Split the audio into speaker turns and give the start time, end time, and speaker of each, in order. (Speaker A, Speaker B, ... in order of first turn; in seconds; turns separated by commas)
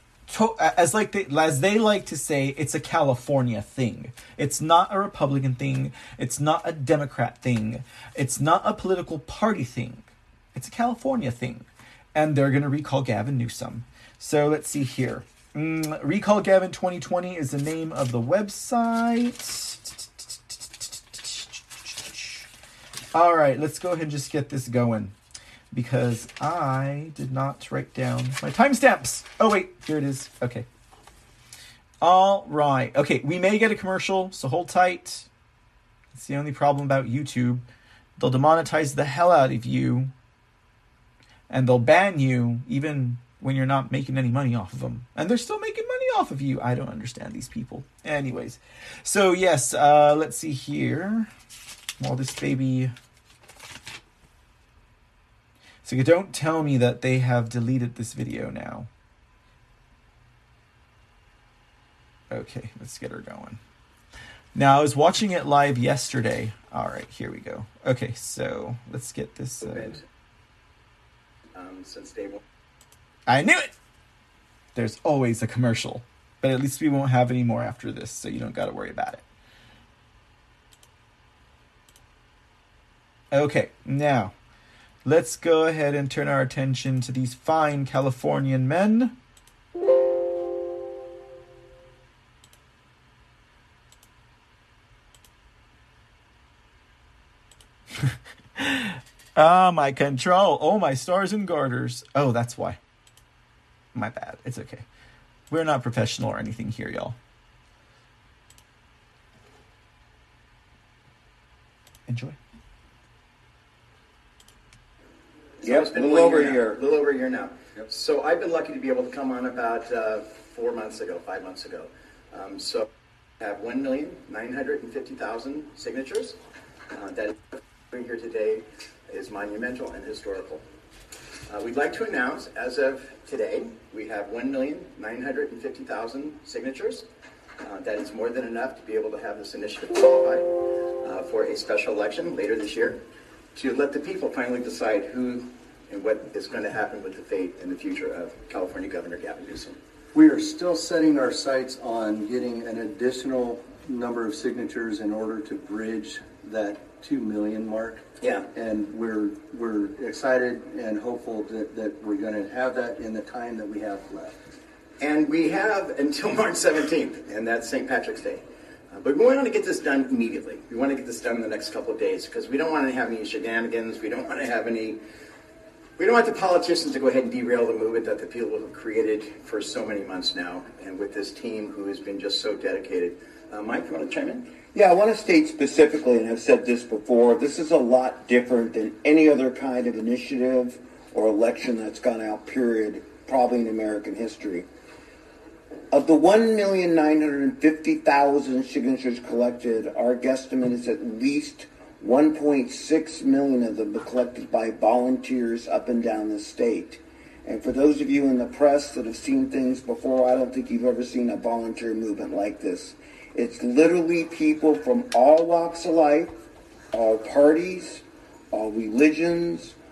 Speaker A: 0.3-22.4, Speaker A: 23.1-25.1, Speaker A: 25.7-30.7, Speaker A: 32.0-35.3, Speaker A: 36.1-37.6, Speaker A: 38.2-40.1, Speaker A: 41.5-51.3, Speaker A: 52.0-52.9, Speaker A: 55.8-58.9, Speaker A: 62.3-63.6, Speaker A: 64.5-70.0, Speaker B: 69.7-70.0, Speaker B: 71.5-72.4, Speaker A: 73.3-73.8, Speaker A: 74.8-79.2, Speaker A: 83.3-84.3, Speaker A: 85.0-89.1, Speaker A: 98.0-102.8, Speaker A: 103.9-104.8, Speaker A: 105.5-107.2, Speaker A: 112.1-112.4, Speaker B: 115.6-122.9, Speaker C: 115.6-116.8, Speaker B: 123.4-126.4, Speaker B: 126.9-130.6, Speaker B: 131.5-137.1, Speaker B: 137.6-143.0, Speaker B: 143.6-149.8, Speaker D: 150.1-164.3, Speaker B: 158.2-158.5, Speaker B: 165.0-175.0, Speaker B: 176.0-184.5, Speaker C: 184.7-194.6, Speaker C: 195.9-216.3, Speaker C: 216.9-219.8